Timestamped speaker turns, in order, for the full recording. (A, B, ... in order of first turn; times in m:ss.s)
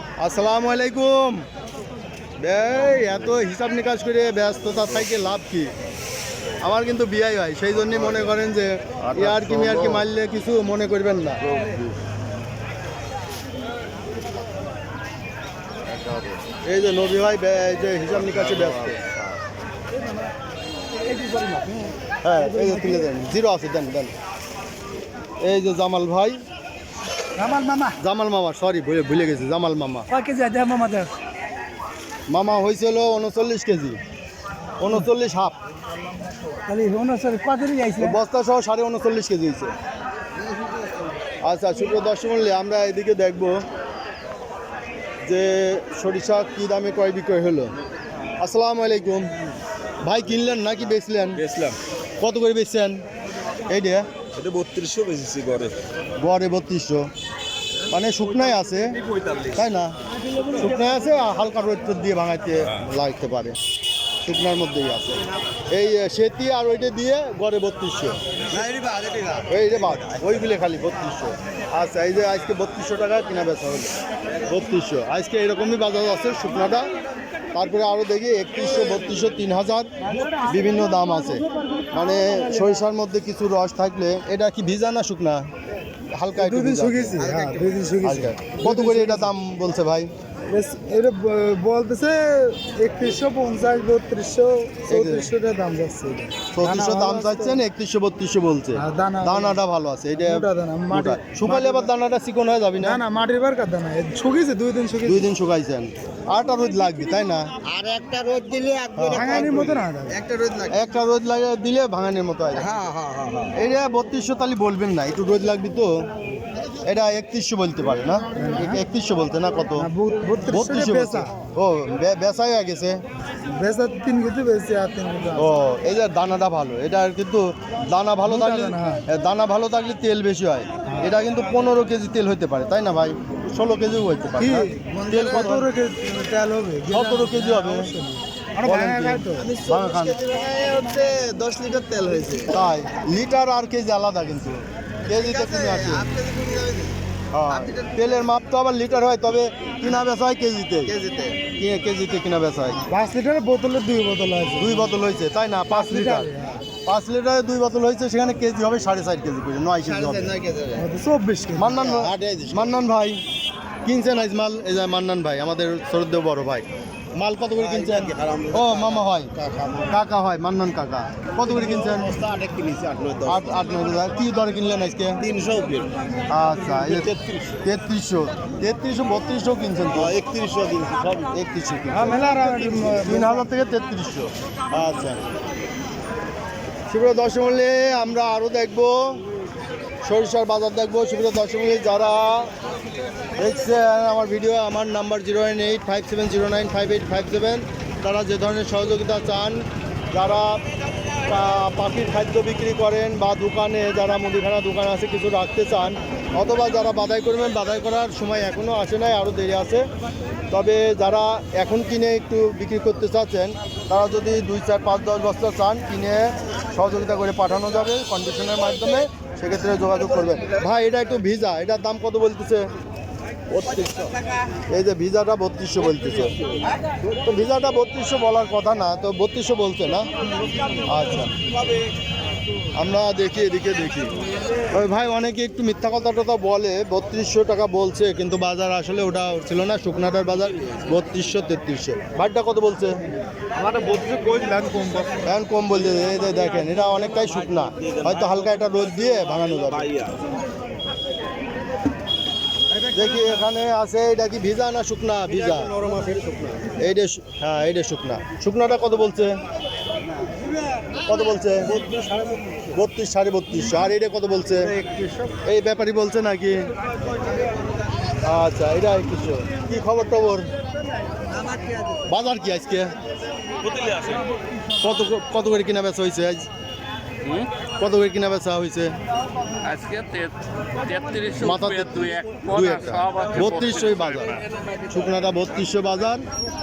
0:00.2-0:01.4 A
0:02.4-0:05.7 A
0:06.6-0:11.6 A
0:15.9-0:16.4 B
0:16.6-0:19.0 A
0:21.0-0:23.1 C
0:22.2-0:24.1 A
0:25.4-0:26.4 A
0:27.4-0:28.0 C
0:28.0-0:30.1 A
0:30.1-0:31.1 C
0:32.3-0:34.0 A
0:34.8-0:35.6 A
0:36.5-0:38.2 C
0:38.0-0:39.7 A
0:41.4-0:43.6 A
0:45.2-0:47.7 A
0:48.4-0:49.3 A
0:50.0-0:51.4 A
0:51.4-0:51.8 D
0:52.2-0:53.0 A
0:53.7-0:54.1 A
0:54.3-0:55.8 D
0:56.2-0:57.1 A
0:57.9-0:59.9 A
1:00.5-1:03.6 A
1:04.2-1:08.2 A
1:08.5-1:10.2 B
1:09.4-1:13.9 A
1:14.5-1:16.9 A
1:17.5-1:19.9 A
1:20.2-1:20.6 C
1:20.4-1:25.5 A
1:21.8-1:22.6 C
1:26.1-1:27.2 A
1:26.4-1:29.3 C
1:27.2-1:27.7 B
1:28.0-1:30.1 A
1:30.5-1:37.6 C
1:34.9-1:35.3 A
1:36.5-1:43.0 A
1:38.7-1:39.6 C
1:40.2-1:41.9 C
1:42.8-1:45.3 C
1:45.0-1:47.5 A
1:47.6-1:50.8 B
1:48.9-1:49.8 A
1:49.1-1:50.2 C
1:50.7-1:52.7 A
1:52.6-1:53.5 B
1:53.5-1:56.0 A
1:56.8-1:59.9 A
1:58.4-1:58.8 C
1:59.8-2:01.3 C
2:00.5-2:03.0 A
2:03.5-2:05.6 C
2:05.4-2:15.7 A
2:08.2-2:09.0 C
2:14.4-2:19.5 C
2:15.1-2:15.4 B
2:16.9-2:17.9 A
2:18.6-2:20.2 A
2:19.3-2:22.5 B
2:22.5-2:26.1 A
2:25.0-2:28.0 B
2:27.3-2:30.9 A
2:30.8-2:31.4 B
2:31.5-2:32.9 A
2:32.9-2:35.0 C
2:34.6-2:36.3 A
2:35.7-2:36.6 C
2:36.8-2:40.3 A
2:39.8-2:40.8 B
2:40.7-2:41.8 C
2:41.5-2:43.2 A
2:41.8-2:42.8 B
2:43.8-2:49.3 A
2:47.6-2:49.9 B
2:49.8-2:52.1 A
2:51.4-2:53.4 B
2:53.2-2:55.2 A
2:55.2-2:55.9 B
2:56.3-2:57.1 A
2:56.7-2:57.5 B
2:57.6-3:00.2 A
3:00.0-3:01.3 B
3:01.2-3:05.2 A
3:01.9-3:03.4 C
3:06.9-3:09.2 A
3:10.0-3:12.5 A
3:13.4-3:20.6 A
3:21.2-3:29.9 A
3:30.5-3:42.7 A
3:43.5-3:44.1 B
3:44.7-3:46.4 A
3:47.1-3:50.1 A
3:50.8-3:51.3 A
3:52.7-3:54.1 A
3:54.7-4:03.0 A
4:03.7-4:05.1 C
4:05.2-4:10.1 A
4:09.7-4:10.1 D
4:12.9-4:15.7 A
4:15.3-4:16.8 B
4:16.8-4:19.4 A
4:21.0-4:21.8 A
4:21.6-4:22.8 B
4:22.7-4:24.7 A
4:24.6-4:25.3 B
4:25.4-4:26.7 A
4:28.2-4:30.5 A
4:32.1-4:32.9 A
4:33.6-4:34.2 B
4:34.8-4:36.5 A
4:37.8-4:39.0 A
4:39.6-4:43.9 E
4:41.4-4:46.2 A